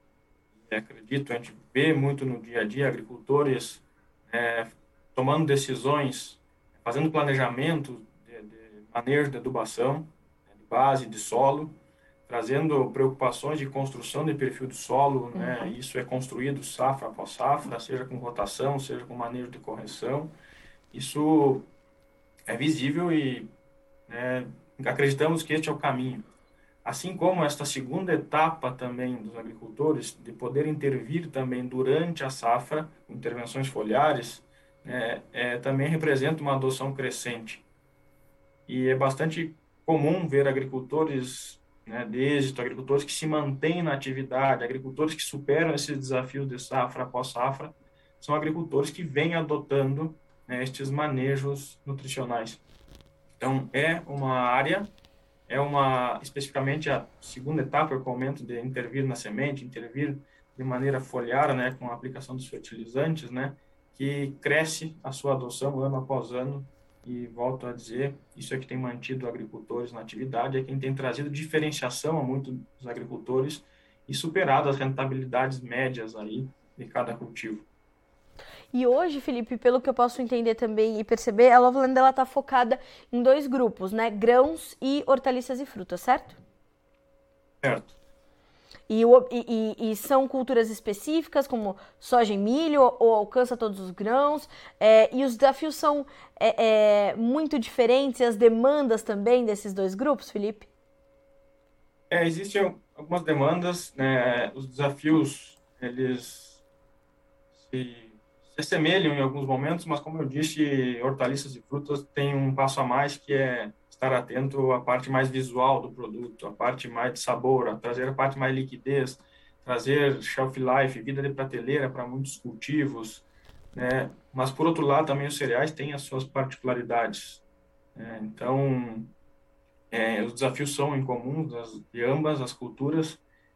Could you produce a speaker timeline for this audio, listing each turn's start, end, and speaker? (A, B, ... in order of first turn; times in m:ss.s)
0:00.6-0:11.7 A
0:12.3-0:20.3 A
0:15.4-0:15.6 B
0:20.9-0:21.7 A
0:22.5-0:23.5 A
0:24.1-0:26.3 A
0:26.8-0:37.7 A
0:38.7-0:52.6 A
0:53.4-0:54.9 A
0:55.5-1:17.7 A
1:18.7-1:26.4 B
1:27.6-1:28.0 A
1:28.9-1:40.7 B
1:42.1-1:46.6 A
1:47.6-2:07.4 A
2:08.0-2:09.1 A
2:09.9-2:13.2 A